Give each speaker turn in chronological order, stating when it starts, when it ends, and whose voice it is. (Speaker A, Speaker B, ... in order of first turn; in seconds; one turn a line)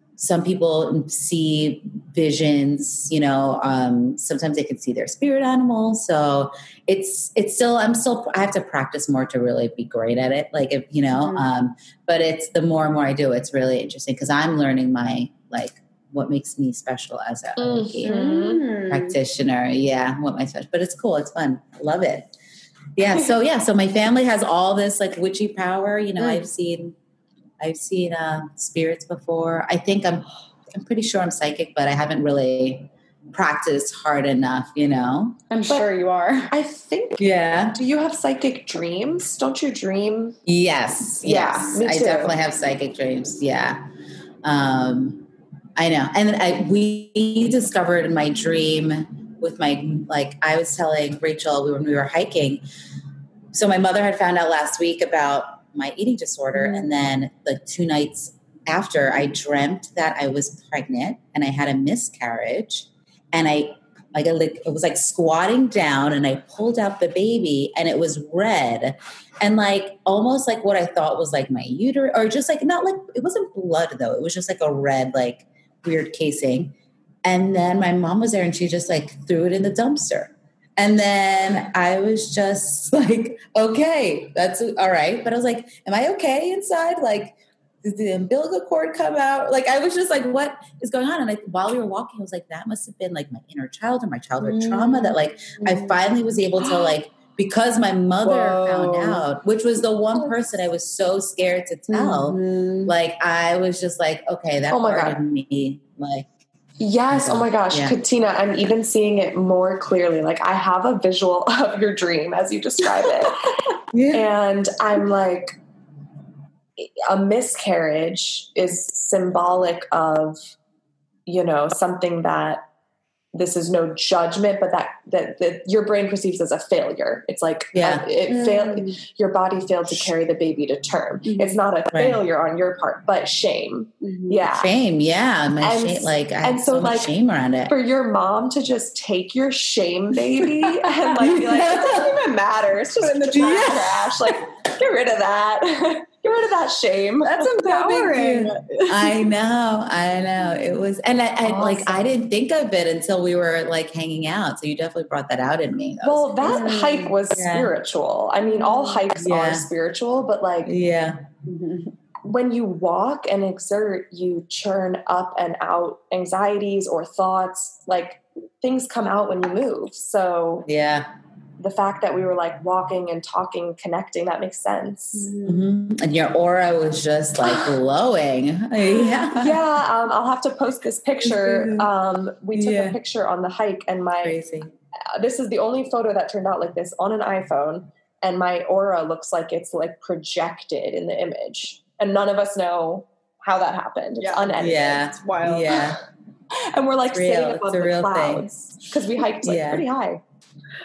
Speaker A: 0.2-18.2
Speaker B: 11.1-11.5
Speaker C: 17.6-18.6
Speaker B: 18.0-19.2
Speaker A: 18.9-22.3
Speaker A: 22.9-26.9
Speaker A: 27.6-35.4
Speaker B: 35.5-36.5
Speaker C: 36.5-40.4
Speaker A: 37.2-37.8
Speaker A: 40.5-43.9
Speaker C: 41.2-42.4
Speaker A: 44.4-52.6
Speaker A: 53.5-106.3
Speaker B: 56.5-56.9
Speaker B: 94.4-96.0
Speaker B: 98.2-99.2
Speaker B: 101.9-102.9
Speaker C: 104.7-105.2
Speaker C: 106.8-115.6
Speaker A: 107.1-108.0
Speaker A: 113.9-114.2
Speaker C: 116.8-120.4
Speaker C: 121.2-122.6
Speaker C: 123.3-134.7
Speaker A: 127.7-128.1
Speaker B: 128.3-129.0
Speaker B: 131.2-131.6
Speaker A: 131.9-132.2
Speaker B: 134.0-134.4
Speaker A: 134.4-137.7
Speaker C: 135.6-137.1
Speaker C: 137.7-147.9
Speaker A: 141.2-142.2
Speaker B: 141.2-142.0
Speaker B: 143.0-144.1
Speaker A: 143.3-144.1
Speaker B: 147.2-149.1
Speaker A: 147.7-156.6
Speaker C: 151.4-152.0
Speaker C: 156.0-160.7
Speaker B: 156.4-157.1
Speaker A: 157.3-157.7
Speaker B: 158.4-159.0
Speaker A: 159.2-159.7
Speaker A: 160.6-161.2
Speaker B: 161.4-161.9
Speaker C: 162.2-170.7
Speaker A: 170.6-171.1
Speaker C: 171.6-175.3
Speaker B: 175.1-175.6
Speaker A: 175.4-179.6
Speaker C: 179.2-184.4
Speaker A: 181.2-181.9
Speaker A: 182.5-183.0
Speaker A: 184.2-184.7
Speaker C: 185.1-195.1
Speaker B: 194.2-195.8
Speaker A: 194.6-196.0
Speaker C: 196.7-200.2
Speaker A: 197.1-198.5
Speaker A: 199.4-199.8